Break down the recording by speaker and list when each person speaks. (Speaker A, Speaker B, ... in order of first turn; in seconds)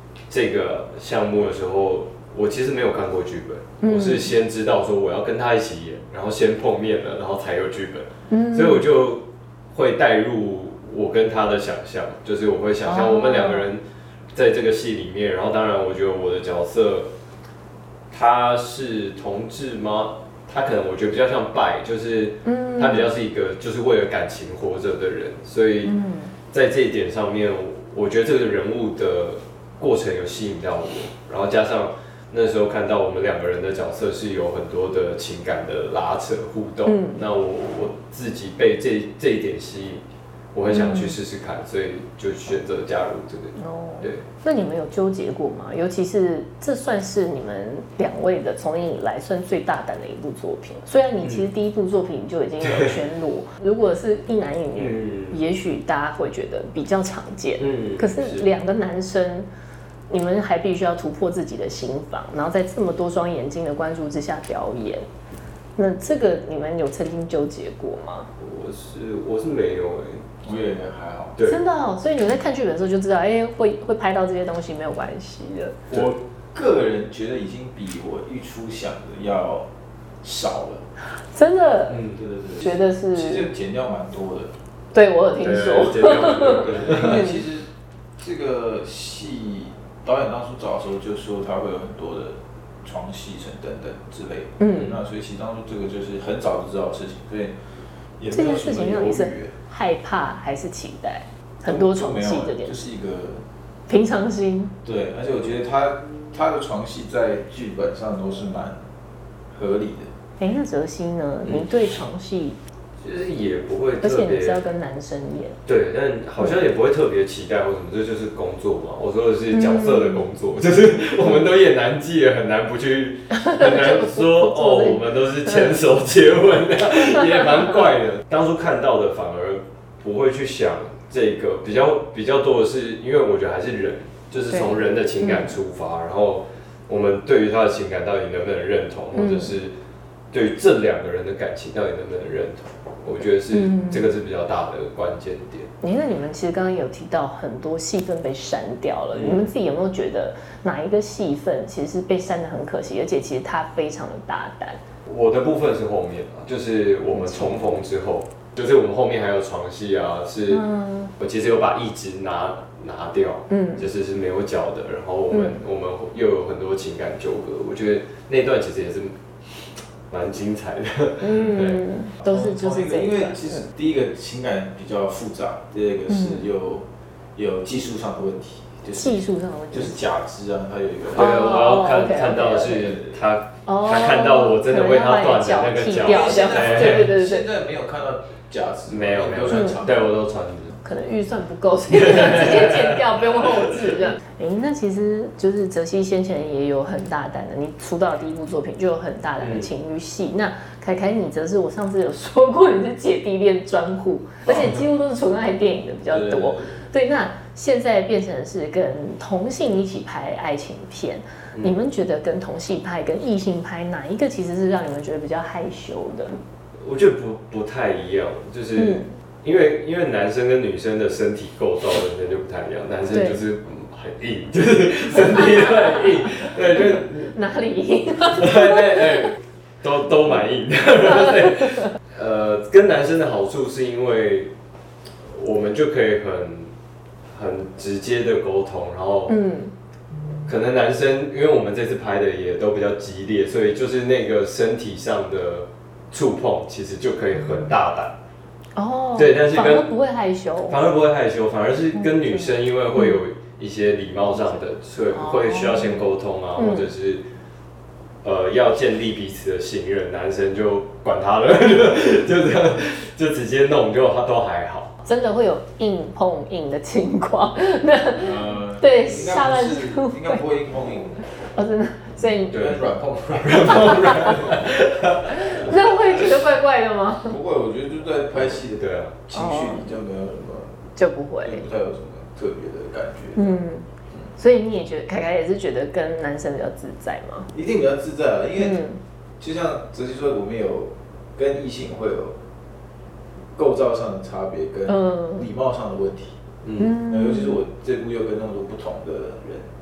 Speaker A: 0.3-17.1, 18.1-25.9, 26.5-44.2, 52.6-53.0, 54.8-55.4, 57.6-58.5, 68.4-70.3, 81.9-82.2, 85.4-87.3, 113.0-114.6, 115.7-139.7, 140.3-145.7, 149.1-149.5, 155.1-160.6, 161.2-169.2, 170.1-171.8, 181.1-187.1, 188.9-190.7, 191.9-193.0, 199.4-199.7, 216.8-227.3, 228.3-234.5, 235.3-236.7, 237.3-239.3, 240.4-248.2, 249.2-249.9, 250.7-257.2, 258.2-264.9, 272.5-272.8, 273.4-275.2, 278.8-279.1, 296.6-296.9
Speaker B: 3.8-4.3, 8.3-8.8, 12.8-13.7, 22.4-23.1, 25.8-26.3, 36.9-37.2, 40.7-41.1, 43.5-59.5, 60.1-65.0, 65.8-68.3, 71.4-75.8, 81.1-83.5, 84.9-87.3, 94.6-95.0, 98.3-102.8, 103.9-104.8, 110.4-112.6, 114.0-115.6, 119.5-120.2, 123.3-125.6, 134.5-135.5, 139.1-139.6, 143.5-144.1, 145.8-154.8, 157.1-157.7, 160.5-161.1, 163.5-163.8, 165.3-165.6, 171.2-173.6, 176.1-176.4, 178.9-180.0, 181.1-183.0, 183.7-187.4, 189.5-189.8, 190.8-216.3, 218.8-219.1, 223.1-223.4, 225.2-225.9, 226.7-229.2, 239.3-239.7, 248.7-250.8, 251.9-253.2, 255.1-256.0, 256.5-256.9, 265.0-270.4, 271.4-272.7, 273.7-274.6, 275.2-277.4, 279.3-279.8, 280.9-281.7, 283.3-287.5, 288.6-289.0, 294.9-295.4, 296.8-297.6
Speaker C: 70.4-71.4, 75.9-79.7, 80.2-80.8, 82.1-84.5, 86.4-87.7, 88.2-97.5, 98.2-99.5, 101.6-103.4, 104.8-108.8, 109.5-110.1, 172.2-181.3, 186.0-190.1, 206.1-206.8, 268.2-271.2, 272.5-274.8, 275.6-276.2, 277.2-280.8, 281.4-283.6, 287.5-288.8, 289.4-292.3, 293.6-296.4, 297.1-299.7